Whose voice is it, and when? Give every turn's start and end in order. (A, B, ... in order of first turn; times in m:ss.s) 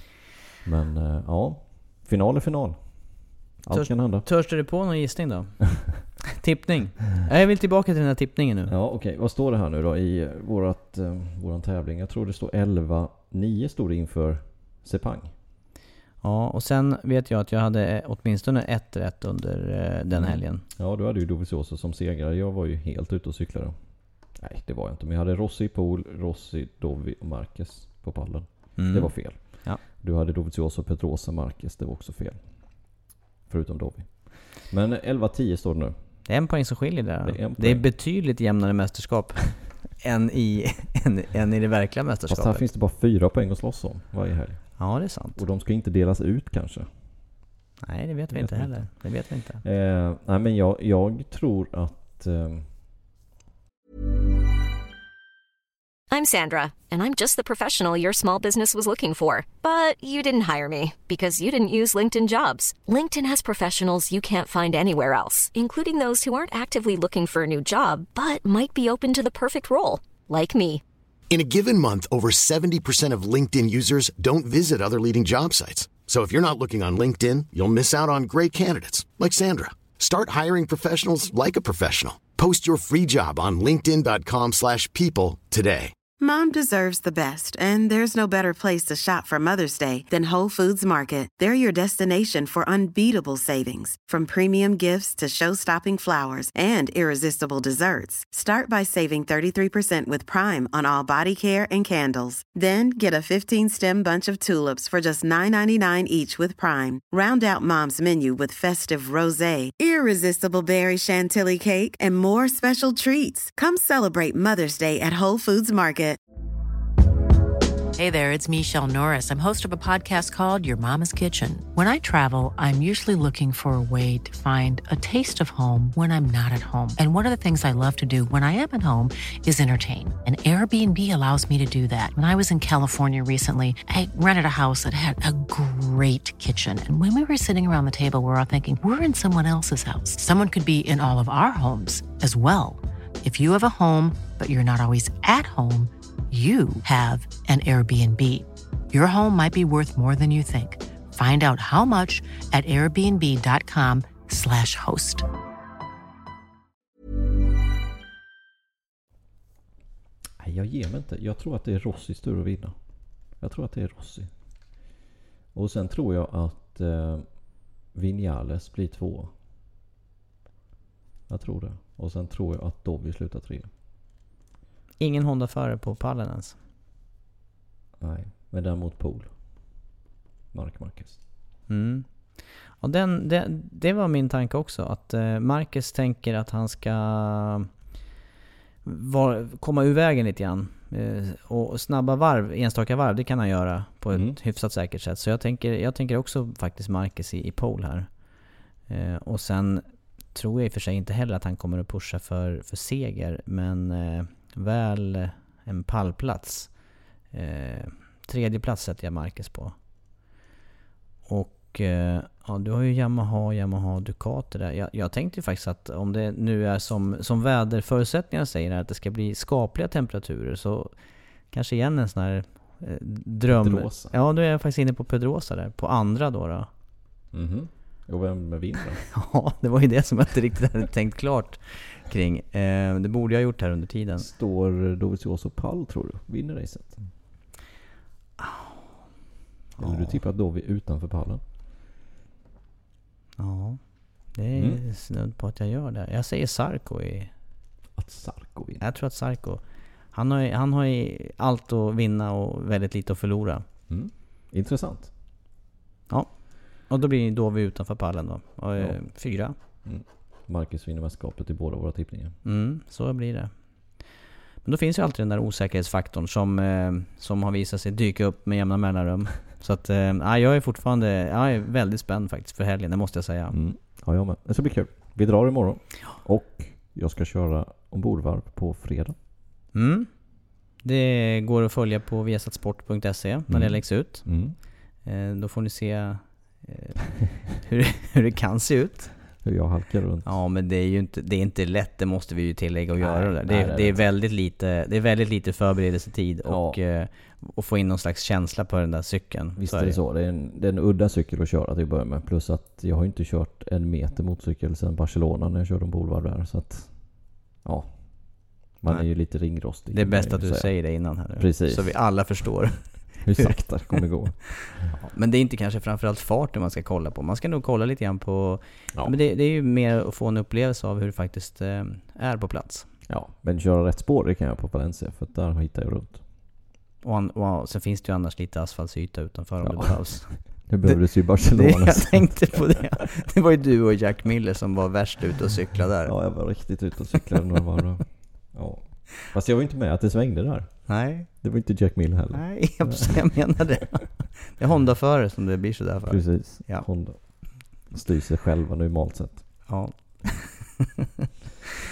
0:00.6-0:04.3 A
0:03.7-0:08.7 B
0:08.7-0:15.3 A
0:16.2-0:20.6 B
0:20.1-0:36.2 A
0:28.8-0:29.8 B
0:36.2-0:42.6 B
0:37.2-0:37.8 A
0:42.3-0:46.9 A
0:44.8-0:45.4 B
0:47.8-0:49.6 B
0:48.3-0:48.9 A
0:49.6-0:52.7 A
0:56.1-1:10.8 C
1:11.3-1:26.0 D
1:26.2-1:56.2 E
1:58.0-2:35.2 F
2:40.4-2:42.8 A
2:43.4-2:44.3 A
2:45.5-2:47.3 A
2:47.9-2:49.3 A
2:51.3-2:53.7 A
2:55.0-2:56.6 B
2:58.0-2:59.3 A
3:00.5-3:01.2 A
3:01.7-3:07.7 B
3:08.8-3:18.3 B
3:14.1-3:14.4 A
3:18.9-3:29.8 B
3:31.2-3:40.9 B
3:41.5-3:46.7 B
3:43.5-3:44.2 A
3:47.3-3:49.1 A
3:49.1-3:54.3 B
3:54.2-3:57.1 A
3:58.4-3:58.8 B
3:59.8-4:00.2 B
3:59.8-4:01.4 A
4:03.4-4:03.8 B
4:04.3-4:07.3 B
4:04.5-4:04.8 A
4:08.0-4:08.8 A
4:08.8-4:13.6 B
4:13.9-4:15.1 A
4:16.1-4:19.5 B
4:18.8-4:19.1 A
4:19.8-4:22.4 A
4:22.4-4:24.1 B
4:24.6-4:33.6 B
4:33.5-4:39.2 A
4:39.7-4:40.1 B
4:40.8-4:49.1 B
4:43.5-4:44.6 A
4:49.4-4:50.3 A
4:50.2-5:00.0 B
4:53.0-4:54.0 A
4:56.4-4:56.8 A
4:59.6-5:12.3 A
5:08.8-5:14.0 B
5:13.2-5:15.0 A
5:14.9-5:22.9 B
5:23.1-5:26.2 A
5:27.0-5:36.7 B
5:29.6-5:32.7 A
5:36.0-5:43.6 A
5:40.9-5:41.4 B
5:42.3-5:46.9 B
5:46.1-5:49.7 A
5:49.7-5:50.8 B